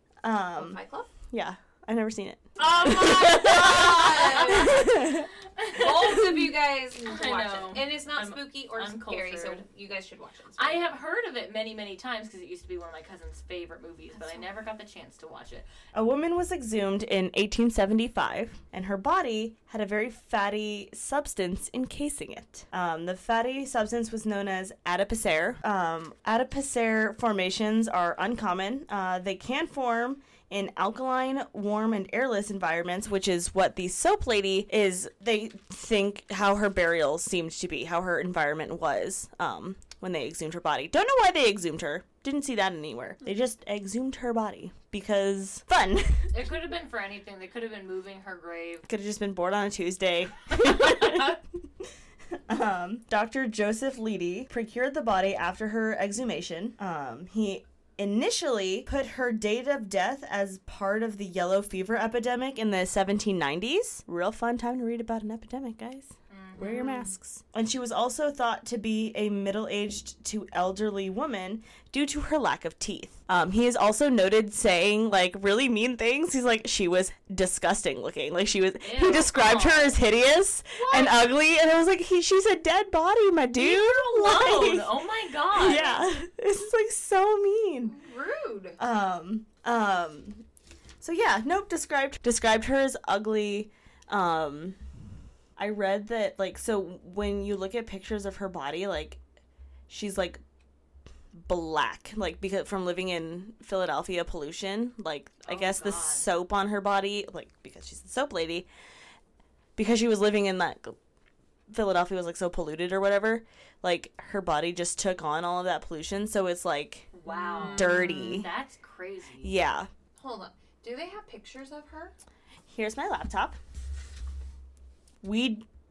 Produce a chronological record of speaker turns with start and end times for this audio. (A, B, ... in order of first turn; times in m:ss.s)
0:00.2-0:00.8 A
0:00.6-0:01.1 B
0:01.3-0:05.3 A
0:02.6-0:06.4 C
0:02.6-0:04.9 B
0:05.7-0:10.9 B
0:07.0-0:09.6 C
0:10.6-0:15.7 C
0:14.2-0:14.4 B
0:15.9-0:46.3 A
0:46.3-0:48.8 C
0:48.9-1:24.9 A
1:06.3-1:06.8 C
1:06.6-1:07.2 B
1:18.8-1:20.0 C
1:20.7-1:21.2 B
1:23.6-1:26.0 C
1:25.5-1:28.0 A
1:27.9-1:28.8 B
1:28.8-1:30.4 A
1:31.0-1:34.8 A
1:35.6-1:39.2 A
1:39.9-1:40.4 A
1:41.3-1:48.7 A
1:45.4-1:46.3 C
1:49.8-1:51.0 A
1:51.7-1:57.1 A
1:57.1-1:58.4 B
1:57.2-1:59.5 C
1:57.7-1:58.5 A
1:59.4-1:59.9 A
2:00.2-2:02.1 B
2:02.7-2:03.6 A
2:05.2-2:05.6 A